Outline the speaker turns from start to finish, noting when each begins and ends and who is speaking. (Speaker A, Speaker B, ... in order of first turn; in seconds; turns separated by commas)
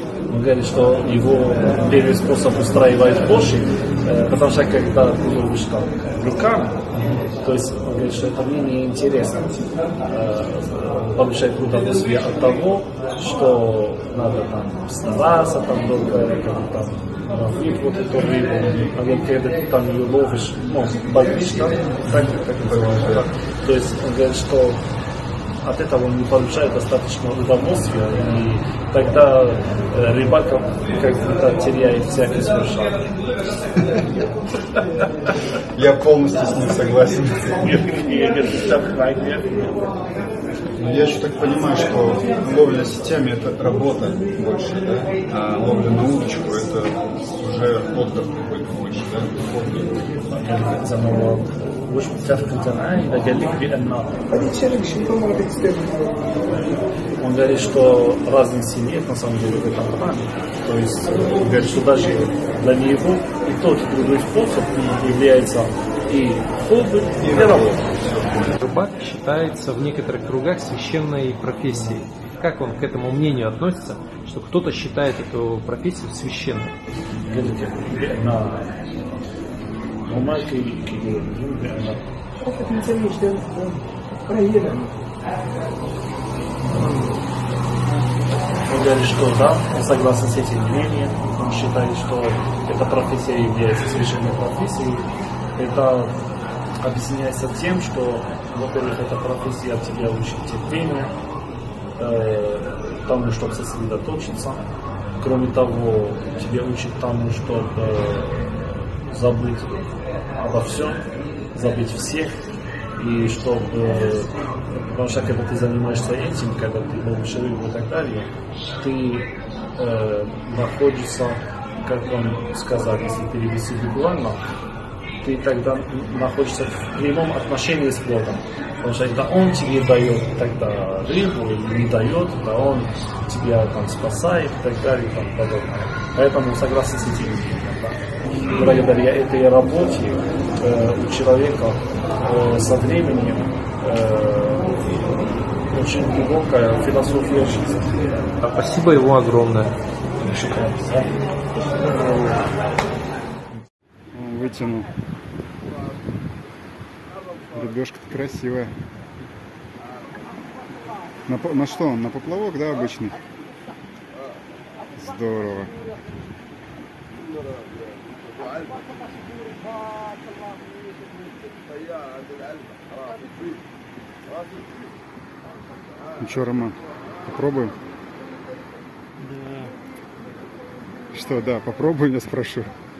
Speaker A: 0.3-24.8, Speaker B: 22.1-23.3, Speaker A: 25.6-33.2, Speaker B: 33.8-34.0, Speaker B: 35.7-37.6, Speaker A: 37.6-40.0, Speaker B: 40.8-49.9, Speaker A: 50.3-54.1, Speaker C: 54.3-56.7, Speaker A: 57.2-67.9, Speaker B: 67.2-68.6, Speaker D: 68.6-76.7, Speaker A: 77.2-79.0, Speaker A: 80.0-82.2, Speaker C: 82.4-85.0, Speaker C: 86.7-87.2, Speaker A: 88.7-95.0, Speaker A: 95.5-96.1, Speaker A: 96.8-101.1, Speaker A: 102.0-104.6, Speaker A: 105.2-112.4, Speaker A: 113.0-124.4, Speaker A: 125.2-145.1, Speaker A: 145.7-148.4, Speaker D: 148.4-149.7, Speaker A: 150.2-151.2, Speaker E: 151.8-152.2, Speaker E: 154.1-154.9, Speaker E: 157.5-158.7, Speaker E: 161.3-163.2, Speaker E: 165.0-165.7, Speaker E: 176.2-176.8, Speaker E: 177.3-177.8, Speaker D: 179.3-179.7, Speaker E: 181.1-182.7